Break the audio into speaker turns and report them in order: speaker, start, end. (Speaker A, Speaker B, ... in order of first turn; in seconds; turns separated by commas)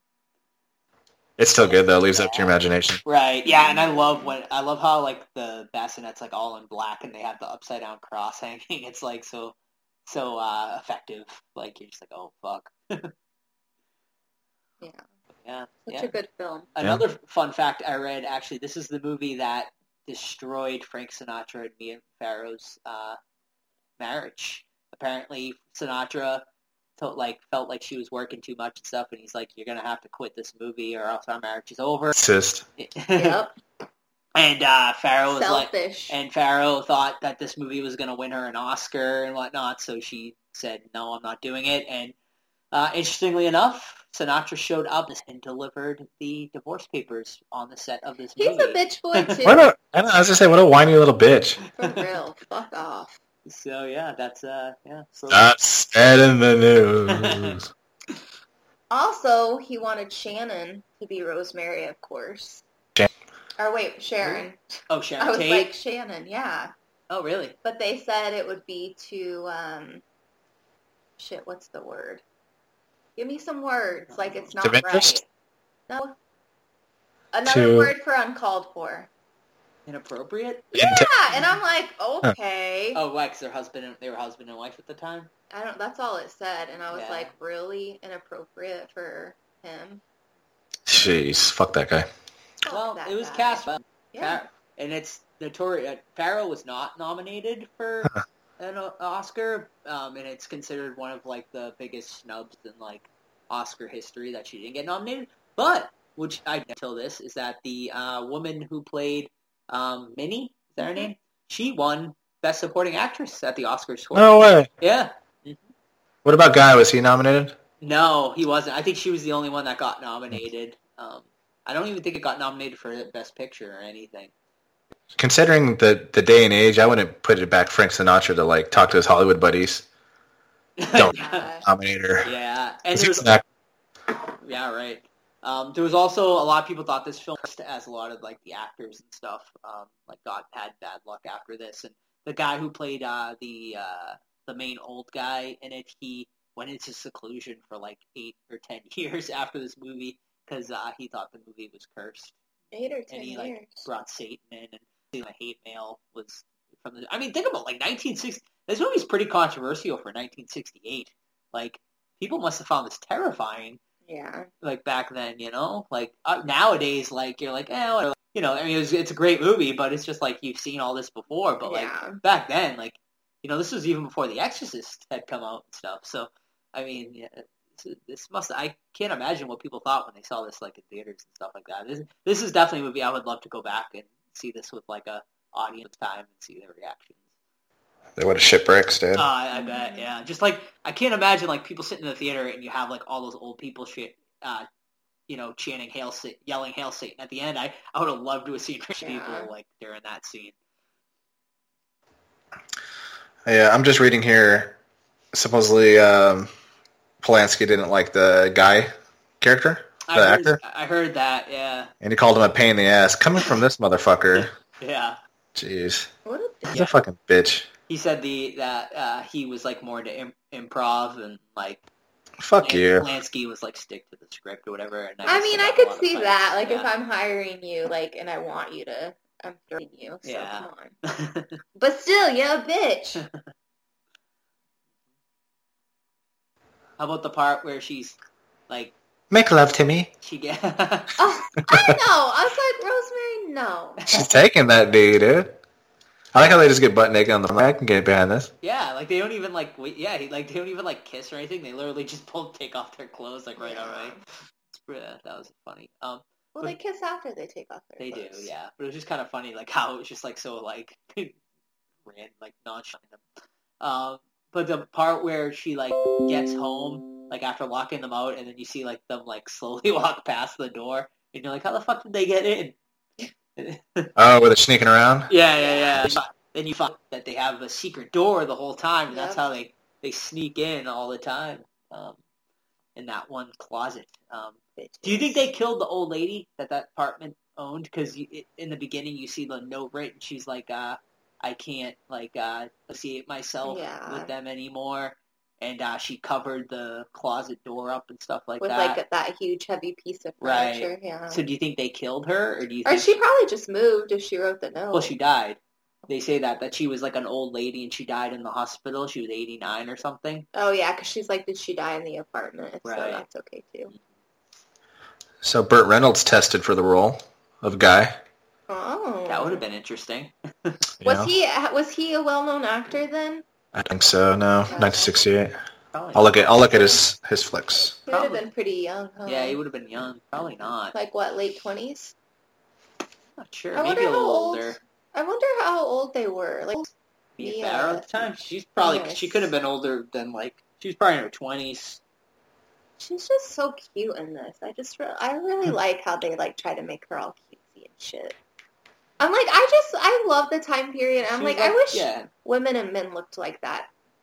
Speaker A: 1.4-3.0, Speaker B: 1.6-2.5, Speaker B: 3.0-9.5, Speaker C: 3.5-4.3, Speaker B: 10.1-13.1, Speaker B: 15.4-16.1, Speaker C: 15.8-16.7, Speaker B: 16.7-23.2, Speaker B: 24.0-26.4, Speaker B: 27.0-32.2, Speaker A: 32.1-32.6, Speaker B: 32.8-33.4, Speaker C: 33.1-33.5, Speaker B: 34.3-42.1, Speaker C: 35.3-36.1, Speaker B: 42.7-49.5, Speaker C: 48.4-49.6, Speaker A: 49.4-51.6, Speaker B: 51.6-52.0, Speaker C: 51.8-53.1, Speaker B: 53.5-55.5, Speaker A: 55.3-57.7, Speaker B: 57.1-57.6, Speaker C: 58.9-62.6, Speaker C: 63.6-66.7, Speaker B: 64.2-65.7, Speaker B: 67.1-67.5, Speaker C: 67.6-70.0, Speaker C: 71.2-72.2, Speaker C: 73.2-75.2, Speaker B: 74.1-74.5, Speaker A: 74.6-75.2, Speaker C: 75.9-76.1, Speaker C: 77.3-79.1, Speaker A: 77.5-77.9, Speaker B: 79.8-80.7, Speaker C: 80.7-83.0, Speaker A: 80.7-81.1, Speaker B: 82.9-85.3, Speaker C: 85.5-90.0, Speaker B: 86.9-87.3, Speaker A: 90.9-92.1, Speaker C: 92.6-94.4, Speaker B: 92.7-115.6, Speaker C: 110.8-111.1, Speaker A: 114.1-114.7, Speaker A: 116.2-117.5, Speaker B: 117.8-124.3, Speaker A: 125.1-129.8, Speaker B: 130.8-131.5, Speaker C: 131.1-131.7, Speaker A: 131.6-132.3, Speaker B: 132.2-133.3, Speaker A: 132.9-133.4, Speaker B: 134.4-152.3, Speaker C: 152.7-153.9, Speaker B: 153.1-163.8, Speaker C: 164.1-164.5, Speaker B: 164.6-187.2, Speaker C: 171.7-172.2, Speaker A: 188.2-189.2, Speaker B: 189.2-194.7, Speaker C: 189.5-190.1, Speaker B: 195.3-200.6, Speaker C: 199.0-199.5, Speaker A: 203.4-204.8, Speaker A: 205.3-206.5, Speaker A: 207.2-210.6, Speaker B: 210.1-211.9, Speaker A: 212.0-214.5, Speaker B: 214.3-215.2, Speaker A: 215.5-216.1, Speaker C: 216.2-216.8, Speaker A: 216.7-217.7, Speaker B: 217.9-221.8, Speaker A: 222.4-223.1, Speaker B: 222.6-226.9, Speaker C: 225.2-230.9, Speaker B: 230.2-231.6, Speaker C: 231.8-233.2, Speaker B: 237.0-238.2, Speaker B: 238.7-238.9, Speaker A: 239.3-240.1, Speaker B: 240.2-241.2, Speaker C: 241.2-244.0, Speaker A: 244.1-245.6, Speaker A: 246.3-248.5, Speaker B: 248.6-256.7, Speaker C: 253.6-254.2, Speaker C: 256.6-258.5, Speaker B: 258.0-261.3, Speaker B: 262.0-263.2, Speaker B: 263.8-272.7, Speaker B: 273.6-274.1, Speaker A: 274.2-275.3, Speaker B: 275.3-282.2, Speaker C: 275.6-276.0, Speaker C: 279.1-279.4, Speaker B: 282.9-299.0, Speaker C: 284.8-285.4, Speaker C: 293.6-294.3, Speaker C: 298.6-301.4, Speaker B: 300.4-303.2, Speaker C: 302.8-305.1, Speaker B: 304.9-310.5, Speaker C: 310.5-313.9, Speaker B: 312.8-313.2, Speaker A: 315.4-318.1, Speaker C: 318.7-319.6, Speaker B: 319.3-320.8, Speaker A: 321.0-321.3, Speaker C: 321.0-323.4, Speaker A: 323.7-325.6, Speaker C: 324.7-325.2, Speaker B: 324.7-325.0, Speaker B: 325.9-326.5, Speaker A: 326.1-327.9, Speaker C: 326.7-327.0, Speaker C: 328.0-329.6, Speaker B: 328.1-328.4, Speaker B: 329.2-330.9, Speaker C: 330.9-332.1, Speaker B: 333.4-334.8, Speaker C: 333.7-336.9, Speaker B: 337.4-342.0, Speaker C: 337.4-339.5, Speaker C: 343.0-348.3, Speaker C: 349.2-353.9, Speaker B: 351.2-352.3